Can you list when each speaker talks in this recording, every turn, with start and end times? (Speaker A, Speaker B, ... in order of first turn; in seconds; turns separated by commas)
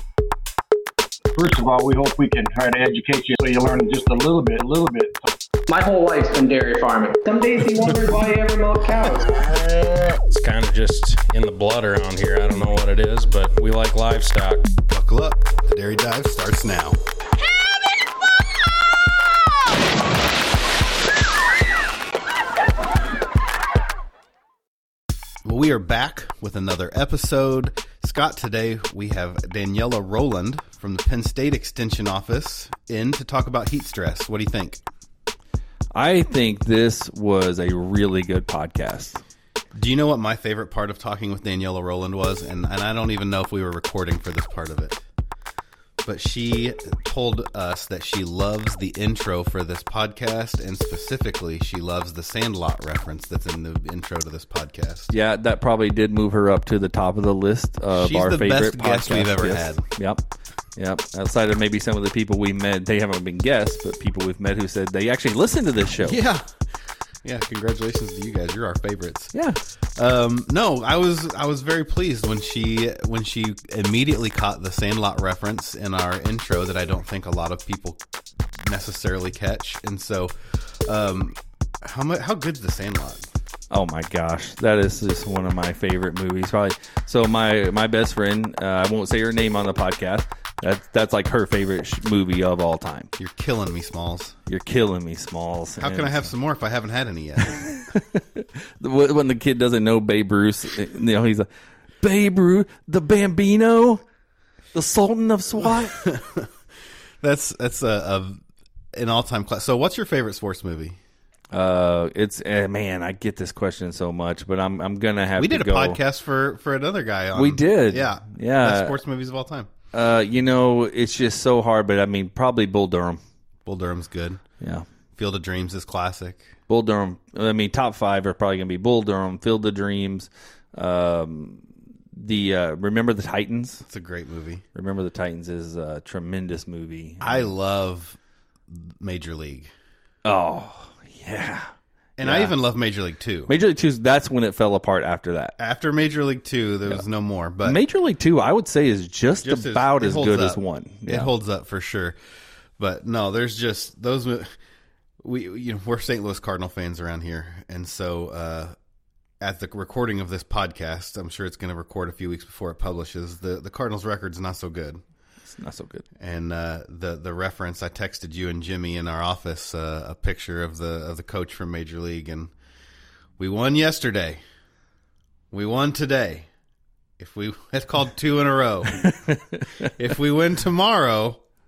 Speaker A: 1.3-5.3, Speaker B: 5.7-9.4, Speaker C: 9.5-14.7, Speaker D: 14.9-17.0, Speaker D: 25.4-34.8, Speaker E: 35.9-39.2, Speaker D: 39.7-45.0, Speaker D: 46.0-55.1, Speaker E: 55.1-60.2, Speaker D: 57.9-59.9, Speaker E: 60.7-66.2, Speaker D: 66.0-69.3, Speaker E: 69.3-69.6, Speaker D: 69.9-83.3, Speaker E: 83.7-93.1, Speaker D: 93.2-94.3, Speaker E: 94.5-96.3, Speaker D: 95.8-97.9, Speaker E: 97.7-101.5, Speaker E: 102.0-104.0, Speaker E: 104.7-106.0, Speaker D: 105.6-106.5, Speaker D: 107.2-111.0, Speaker E: 111.5-116.0, Speaker D: 115.4-119.7, Speaker E: 117.3-118.9, Speaker E: 119.9-123.2, Speaker D: 123.6-124.4, Speaker E: 124.6-124.8, Speaker D: 125.1-126.5, Speaker E: 126.7-133.9, Speaker D: 133.9-134.6, Speaker E: 134.7-137.5, Speaker D: 137.2-139.7, Speaker E: 140.2-142.5, Speaker D: 142.2-143.5, Speaker E: 143.5-145.5, Speaker D: 145.6-147.8, Speaker E: 147.6-151.3, Speaker D: 149.4-152.2, Speaker D: 152.8-154.6, Speaker D: 155.2-158.8, Speaker D: 159.4-165.0, Speaker E: 165.4-166.0, Speaker D: 166.2-172.5, Speaker D: 173.4-174.4, Speaker D: 175.5-176.5, Speaker D: 177.2-179.1, Speaker E: 179.2-179.7, Speaker D: 179.8-181.4